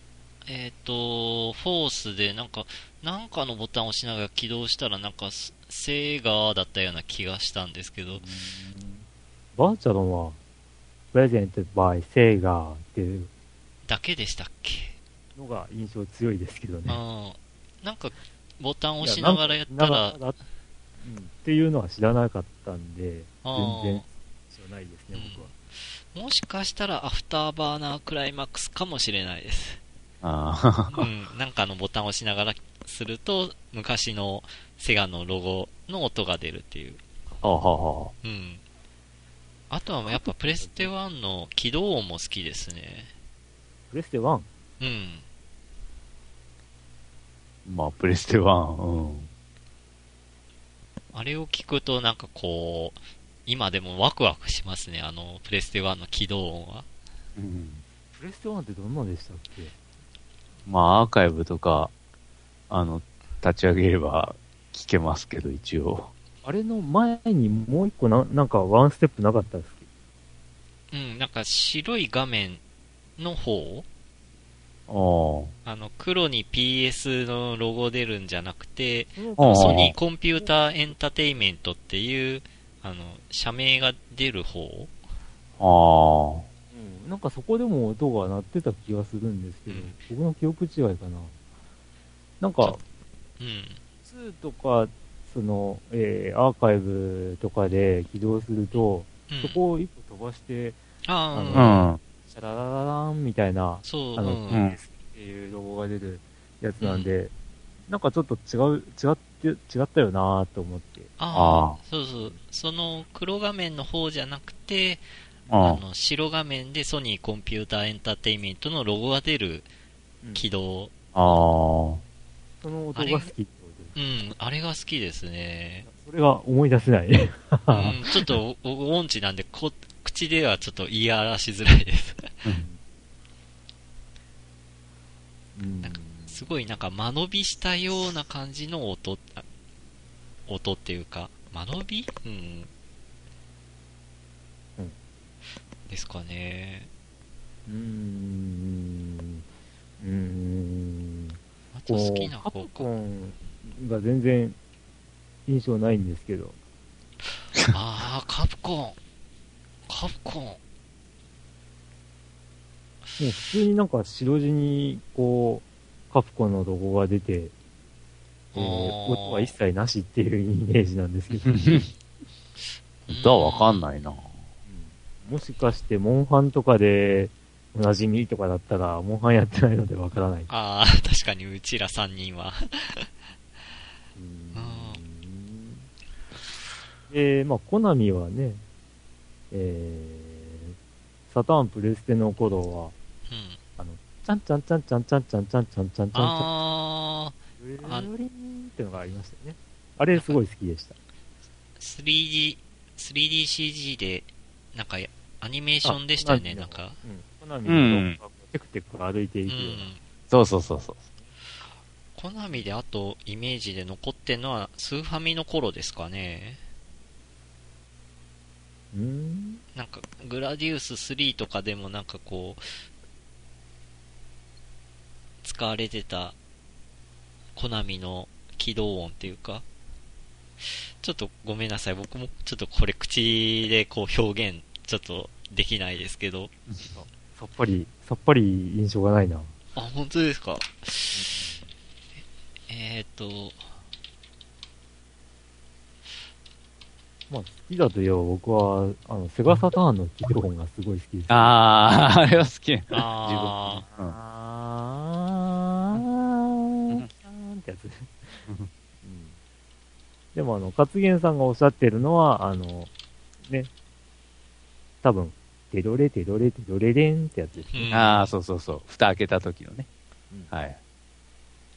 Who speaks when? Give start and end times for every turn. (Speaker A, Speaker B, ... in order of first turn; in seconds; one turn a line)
Speaker A: 0.5-8.2
Speaker B: 8.1-10.4
Speaker B: 11.1-13.3
Speaker A: 13.8-15.0
Speaker B: 15.4-17.0
Speaker A: 16.9-20.2
Speaker B: 19.0-20.4
Speaker B: 21.0-25.5
Speaker A: 23.4-24.1
Speaker A: 25.1-25.6
Speaker A: 26.1-29.8
Speaker C: 30.2-31.1
Speaker A: 30.9-37.0
Speaker C: 37.4-38.1
Speaker A: 38.2-38.6
Speaker A: 39.7-43.1
Speaker B: 40.2-40.9
Speaker B: 43.9-44.5
Speaker A: 44.8-45.3
Speaker C: 47.6-49.3
Speaker A: 51.1-56.9
Speaker C: 57.4-57.8
Speaker B: 58.1-59.7
Speaker C: 60.7-61.9
Speaker C: 62.7-66.1
Speaker B: 66.4-69.9
Speaker A: 70.9-72.6
Speaker A: 73.2-73.9
Speaker C: 74.9-75.5
Speaker A: 75.7-84.9
Speaker B: 79.2-81.0
Speaker C: 79.4-80.0
Speaker C: 85.6-86.5
Speaker B: 86.7-91.3
Speaker A: 89.7-90.0
Speaker B: 92.4-92.8
Speaker A: 93.4-93.8
Speaker B: 94.1-100.8
Speaker A: 99.3-99.6
Speaker A: 101.0-101.8
Speaker B: 101.3-107.3
Speaker C: 101.5-102.0
Speaker A: 103.8-104.7
Speaker C: 104.5-104.8
Speaker A: 106.8-107.1
Speaker B: 107.9-111.1
Speaker A: 111.2-115.0
Speaker C: 111.3-111.8
Speaker C: 115.5-115.8
Speaker A: 115.6-119.7
Speaker A: 120.3-120.9
Speaker C: 121.1-122.0
Speaker B: 122.6-124.0
Speaker A: 123.0-123.3
Speaker A: 124.0-125.9
Speaker B: 125.8-128.3
Speaker A: 127.7-132.3
Speaker B: 135.6-136.5
Speaker A: 135.8-139.4
Speaker A: 140.5-142.7
Speaker A: 145.9-146.9
Speaker B: 147.7-149.4
Speaker B: 150.0-154.6
Speaker A: 151.7-152.9
Speaker B: 155.5-156.6
Speaker A: 157.6-159.0
Speaker A: 159.9-160.6
Speaker B: 163.2-167.5
Speaker A: 168.5-169.5
Speaker B: 168.5-171.9
Speaker C: 171.5-171.9
Speaker A: 173.1-173.8
Speaker C: 173.1-174.3
Speaker B: 174.7-180.5
Speaker A: 180.5-183.1
Speaker B: 184.2-185.9
Speaker A: 184.6-185.0
Speaker B: 187.1-188.6
Speaker B: 189.5-190.8
Speaker B: 191.3-192.9
Speaker A: 193.3-193.6
Speaker B: 193.8-196.5
Speaker A: 196.1-198.1
Speaker B: 197.6-200.9
Speaker A: 200.1-200.4
Speaker A: 201.8-207.0
Speaker B: 205.8-209.9
Speaker C: 207.7-208.2
Speaker A: 209.5-210.0
Speaker C: 210.3-211.0
Speaker A: 212.2-216.6
Speaker B: 218.9-219.6
Speaker A: 219.8-222.8
Speaker A: 225.4-226.4
Speaker A: 227.6-229.6
Speaker A: 230.6-236.5
Speaker B: 236.9-239.5
Speaker A: 239.8-241.2
Speaker B: 241.1-241.6
Speaker A: 242.7-243.7
Speaker B: 247.3-251.6
Speaker C: 251.3-254.2
Speaker A: 252.9-253.8
Speaker B: 254.1-258.4
Speaker B: 259.0-259.4
Speaker B: 260.3-262.9
Speaker B: 265.0-267.9
Speaker A: 267.7-268.3
Speaker C: 267.9-269.9
Speaker C: 270.5-270.8